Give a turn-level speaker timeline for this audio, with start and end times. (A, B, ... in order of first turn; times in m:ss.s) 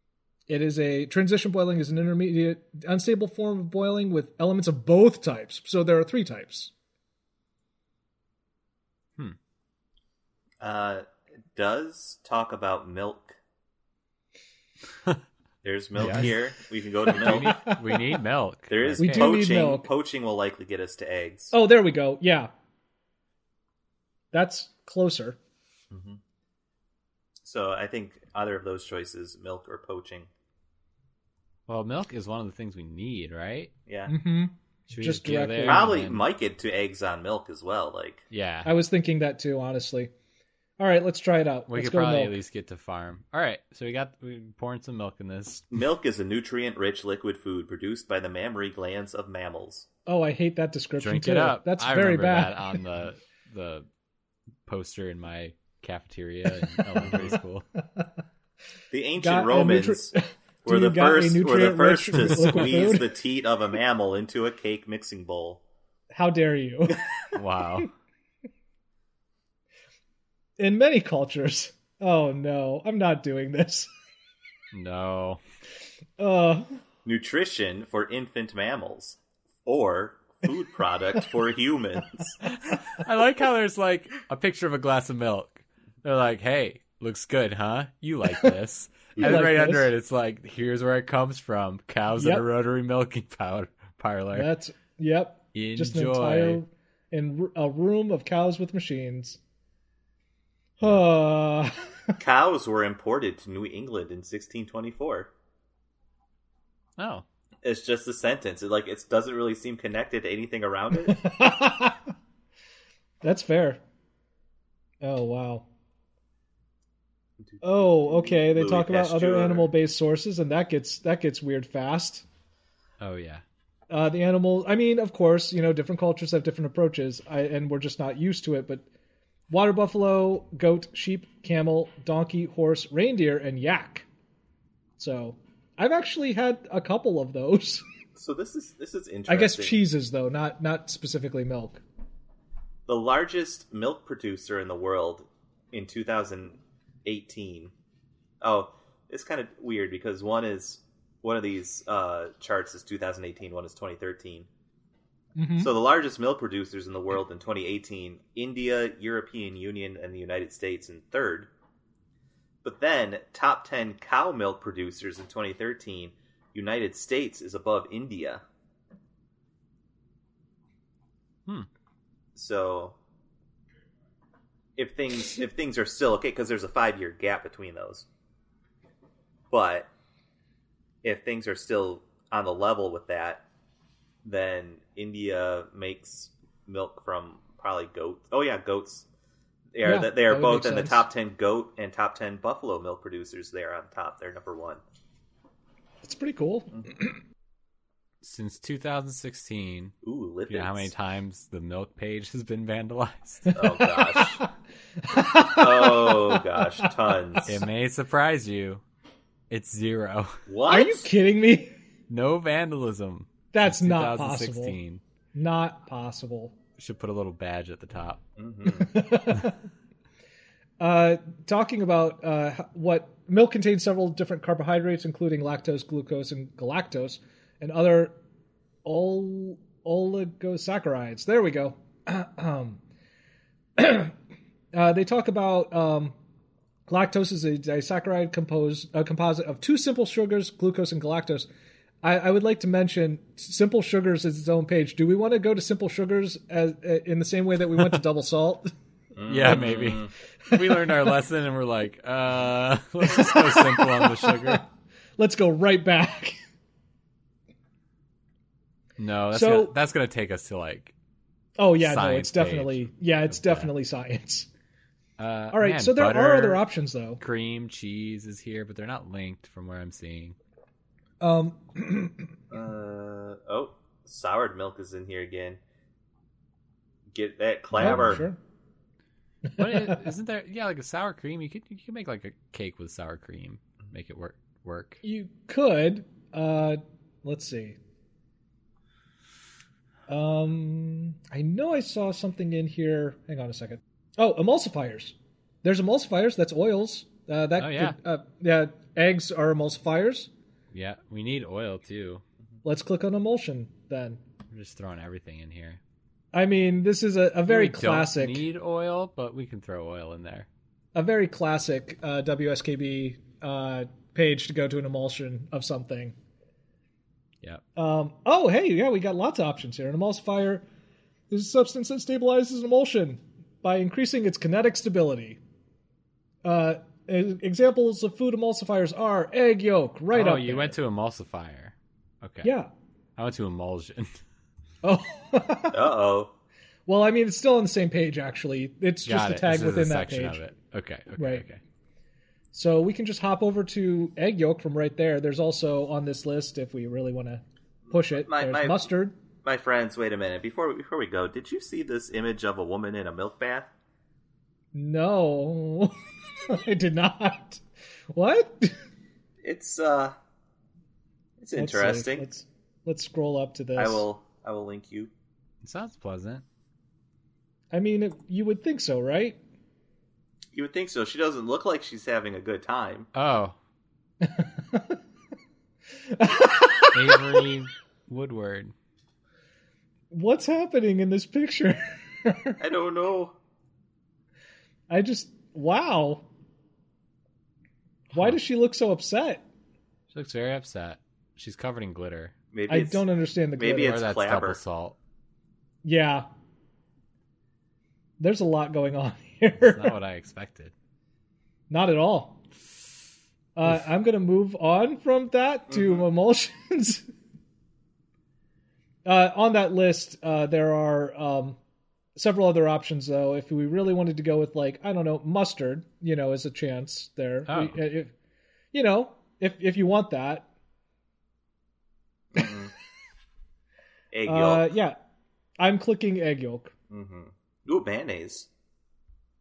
0:00.5-0:06.7 A
0:10.6-0:13.4 B
0:15.6-0:17.7 B
0:16.0-0:16.3 C
0:17.1-0:19.3 C
0:17.3-0:17.8 A
0:18.7-0:21.5 B
0:19.0-0:19.9 A
0:21.5-0:22.5 A
0:24.3-0:25.4 A
0:25.9-0:26.2 B
0:27.4-0:30.3 B
0:31.7-0:33.7 C
0:33.9-0:34.1 B
0:34.1-0:35.9 A
0:34.9-0:36.2 C
0:35.6-0:38.2 B
0:38.3-0:38.7 C
0:38.6-0:40.1 A
0:40.8-0:42.4 A
0:41.7-0:45.7 C
0:45.7-0:49.8 B
0:50.0-0:52.8 A
0:51.0-0:53.9 C
0:54.6-0:57.6 C
0:56.8-0:57.2 A
0:57.0-0:57.3 B
0:58.9-1:00.1 B
0:59.2-1:03.1 A
1:00.6-1:05.6 B
1:02.1-1:02.8 C
1:06.1-1:07.8 A
1:07.3-1:07.9 C
1:10.6-1:13.9 A
1:14.7-1:15.4 C
1:16.2-1:16.7 A
1:17.0-1:22.4 B
1:22.4-1:34.5 C
1:29.2-1:29.9 A
1:32.2-1:32.4 A
1:34.3-1:39.4 A
1:35.5-1:36.6 C
1:40.8-1:42.2 A
1:42.2-1:45.3 B
1:47.0-1:47.2 C
1:47.6-1:51.2 B
1:51.1-1:52.1 A
1:53.2-1:53.8 A
1:55.0-1:55.7 A
1:57.4-1:59.7 B
1:57.6-2:02.2 A
2:03.0-2:03.4 C
2:03.9-2:08.8 A
2:09.5-2:14.1 A
2:15.0-2:17.8 A
2:18.2-2:19.8 B
2:19.3-2:21.8 A
2:22.9-2:27.7 B
2:28.4-2:34.5 B
2:35.4-2:35.7 A
2:35.6-2:41.5 B
2:42.6-2:48.4 B
2:52.3-2:53.0 B
2:54.8-2:58.0 B
2:59.5-2:59.9 B
3:01.0-3:03.4 B
3:04.2-3:09.0 B
3:09.7-3:14.8 B
3:09.8-3:11.0 A
3:16.0-3:17.2 A
3:18.2-3:19.9 C
3:20.0-3:20.9 B
3:20.5-3:23.6 C
3:23.5-3:24.4 B
3:23.6-3:24.4 A
3:25.0-3:26.9 A
3:25.4-3:27.6 B
3:27.4-3:28.8 C
3:29.5-3:30.4 C
3:30.5-3:31.1 B
3:30.7-3:31.7 A
3:32.1-3:35.0 C
3:33.5-3:34.8 A
3:35.3-3:36.6 A
3:36.8-3:38.2 C
3:38.4-3:39.0 B
3:38.7-3:39.6 A
3:40.8-3:48.2 A
3:48.8-3:52.8 A
3:53.8-3:54.2 A
3:54.7-3:56.2 A
3:56.9-4:01.5 A
4:02.0-4:08.7 A
4:09.1-4:10.1 B
4:09.2-4:14.6 C
4:10.4-4:11.1 A
4:13.0-4:14.6 A
4:15.2-4:16.4 A
4:19.0-4:20.9 C
4:19.3-4:19.7 A
4:21.6-4:24.5 A
4:21.8-4:23.7 C
4:25.2-4:26.6 C
4:25.5-4:27.2 A
4:27.2-4:30.4 C
4:31.2-4:32.3 A
4:32.5-4:35.6 B
4:37.1-4:38.2 B
4:37.8-4:38.2 C
4:37.8-4:38.4 A
4:39.5-4:40.0 A
4:39.6-4:45.0 C
4:45.0-4:47.8 A
4:50.1-5:00.3 A
4:57.6-4:58.0 C
5:00.7-5:02.2 C
5:02.6-5:04.2 A
5:04.5-5:05.8 C
5:06.3-5:08.4 A
5:07.5-5:10.5 C
5:10.9-5:16.2 A
5:17.8-5:20.6 A
5:21.3-5:25.4 A
5:26.4-5:30.8 A
5:30.1-5:32.5 C
5:32.4-5:32.7 A
5:33.2-5:34.2 C
5:34.8-5:35.8 A
5:35.7-5:36.3 B
5:36.9-5:40.4 A
5:39.0-5:41.6 C
5:41.2-5:41.4 A
5:42.5-5:49.1 A
5:47.8-5:48.9 B
5:49.4-5:53.7 B
5:54.7-5:57.6 A
5:58.1-5:58.7 A
5:59.4-6:00.2 B
6:01.4-6:02.3 B
6:01.6-6:04.0 A
6:03.8-6:05.1 B
6:05.6-6:06.4 C
6:07.7-6:09.4 A
6:10.5-6:13.1 B
6:13.1-6:13.6 C
6:14.2-6:15.0 A
6:16.1-6:17.4 A
6:16.9-6:18.7 C
6:20.1-6:22.6 A
6:22.6-6:23.4 B
6:24.9-6:26.2 A
6:28.1-6:29.4 A
6:30.1-6:32.3 C
6:32.5-6:33.0 B
6:32.7-6:34.0 A
6:33.6-6:34.6 B
6:33.8-6:35.0 C
6:35.8-6:36.3 A
6:38.2-6:39.9 A
6:39.6-6:40.7 C
6:41.7-6:42.4 A
6:43.6-6:47.0 A
6:49.0-6:51.6 A
6:52.2-6:58.1 A
6:57.5-6:57.8 C
6:58.7-7:00.5 A
7:02.3-7:02.7 B
7:04.1-7:04.7 B
7:04.3-7:05.0 A
7:05.6-7:06.7 A
7:06.9-7:08.5 B